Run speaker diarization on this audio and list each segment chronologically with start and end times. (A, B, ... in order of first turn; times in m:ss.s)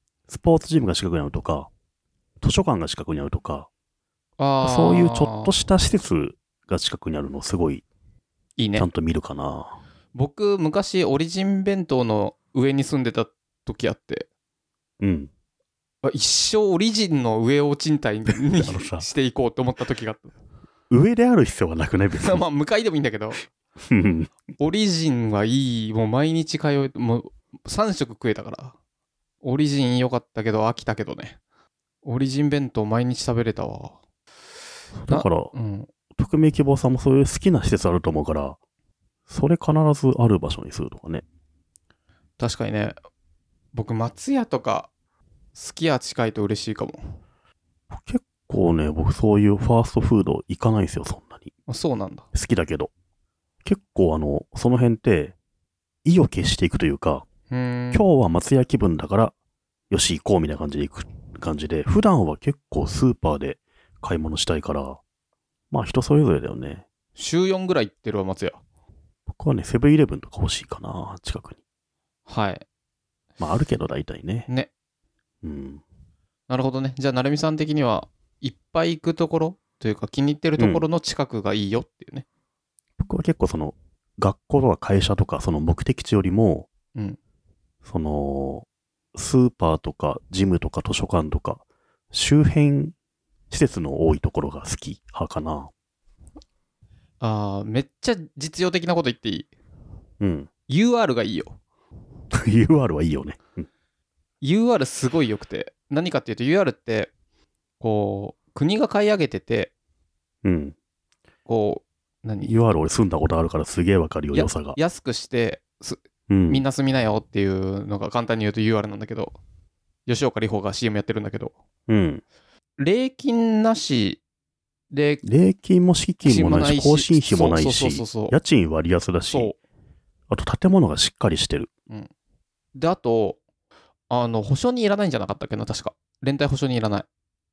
0:00.3-0:01.7 A
0:02.4-0:03.7 A
0:04.4-0:05.5 B
0:04.6-0:07.8 A
0:08.6-0:08.9 B
0:08.8-0:09.8 A
0:10.1-0:14.3 B
0:15.0-0:15.3 A
0:16.0-0:20.3 B
0:18.4-0:19.1 A
0:20.9-0:22.4 A
0:22.2-0:23.4 B
0:23.8-0:24.3 A
0:24.6-0:28.8 B
0:29.4-0:31.4 B
0:32.0-0:34.0 B
0:35.0-0:35.5 A
0:35.1-0:35.9 B
0:36.1-0:38.6 A
0:39.3-0:41.2 A
0:42.4-0:43.0 B
0:43.7-0:44.9 B
0:45.6-0:47.0 B
0:47.9-0:51.5 A
0:51.7-0:52.3 B
0:52.3-0:52.9 A
0:53.6-0:55.4 A
0:56.0-0:57.3 A
0:57.5-0:58.1 B
0:57.9-0:59.3 A
0:59.9-1:05.0 A
1:05.7-1:06.8 A
1:07.2-1:08.6 B
1:09.3-1:11.6 A
1:12.3-1:12.6 B
1:13.4-1:14.5 A
1:15.4-1:15.8 A
1:16.5-1:22.2 B
1:20.6-1:20.9 A
1:23.0-1:26.7 A
1:27.8-1:33.0 A
1:33.5-1:35.7 A
1:37.2-1:39.5 B
1:40.2-1:40.5 A
1:40.7-1:41.6 B
1:42.3-1:43.7 A
1:44.4-1:47.1 B
1:47.8-1:49.7 B
1:50.4-1:50.8 A
1:51.5-1:52.6 B
1:52.5-1:54.8 A
1:54.3-1:59.4 B
1:56.3-1:56.6 A
2:00.1-2:01.5 B
2:01.9-2:02.2 A
2:02.8-2:04.2 B
2:04.9-2:05.2 B
2:05.2-2:09.5 A
2:06.2-2:08.4 B
2:09.3-2:09.6 B
2:10.3-2:11.7 A
2:12.8-2:13.4 B
2:14.1-2:17.1 B